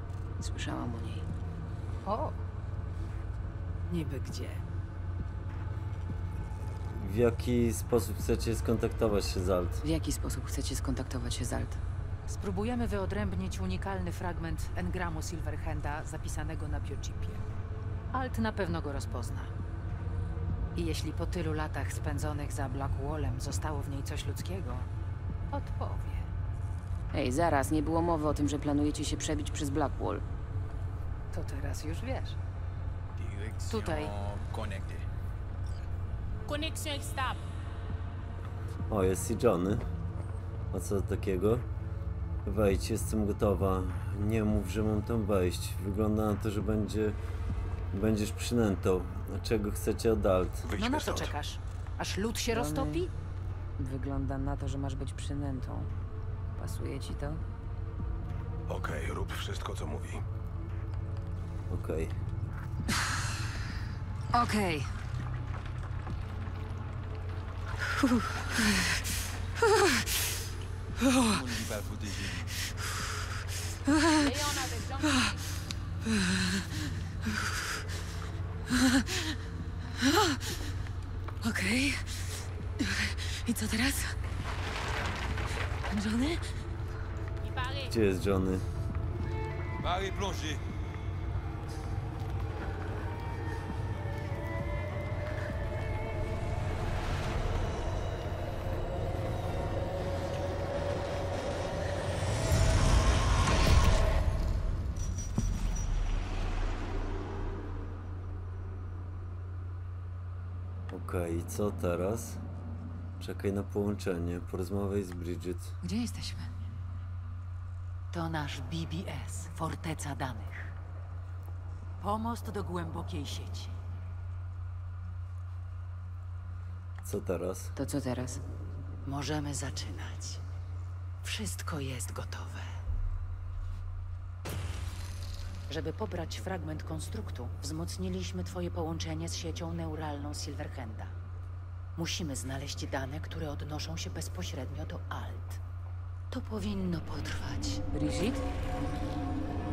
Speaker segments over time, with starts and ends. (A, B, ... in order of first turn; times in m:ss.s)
0:00.4-0:01.3 A
0:02.0-0:02.4 B
0:03.9-0:04.6 B
0:06.9-0:09.8 C
0:09.8-0:11.8 A
0:12.2-0:17.4 B
0:18.1-0:19.5 B
0:20.8-0:24.9 B
0:25.5-0:26.3 B
0:27.1-0:30.2 A
0:31.3-0:32.4 B
0:33.2-0:35.0 D
0:33.7-0:34.1 B
0:36.4-0:37.4 E
0:38.9-0:39.8 C
0:40.7-0:41.6 C
0:42.4-0:47.2 C
0:47.9-0:50.6 C
0:50.6-0:51.3 F
0:50.7-0:53.1 B
0:52.5-0:53.1 A
0:53.8-0:55.9 A
0:56.6-0:57.4 A
0:58.7-1:00.2 F
1:01.7-1:02.2 C
1:04.3-1:04.9 A
1:07.9-1:09.0 A
1:09.6-1:10.2 A
1:11.0-1:11.4 A
1:11.7-1:12.4 D
1:13.8-1:15.4 A
1:14.2-1:15.3 E
1:16.0-1:17.5 A
1:18.7-1:19.4 A
1:20.0-1:20.5 A
1:21.4-1:22.3 A
1:22.8-1:24.2 A
1:25.9-1:26.4 A
1:27.4-1:27.9 E
1:27.9-1:28.6 C
1:29.8-1:30.6 D
1:50.9-1:52.4 C
1:53.2-1:55.7 C
1:55.8-1:56.6 B
1:58.1-2:00.7 B
2:02.0-2:03.7 B
2:07.0-2:07.7 C
2:07.7-2:08.4 A
2:09.0-2:10.4 B
2:11.2-2:12.8 B
2:15.7-2:21.1 B
2:22.0-2:25.6 B
2:26.3-2:28.2 B
2:28.0-2:28.4 A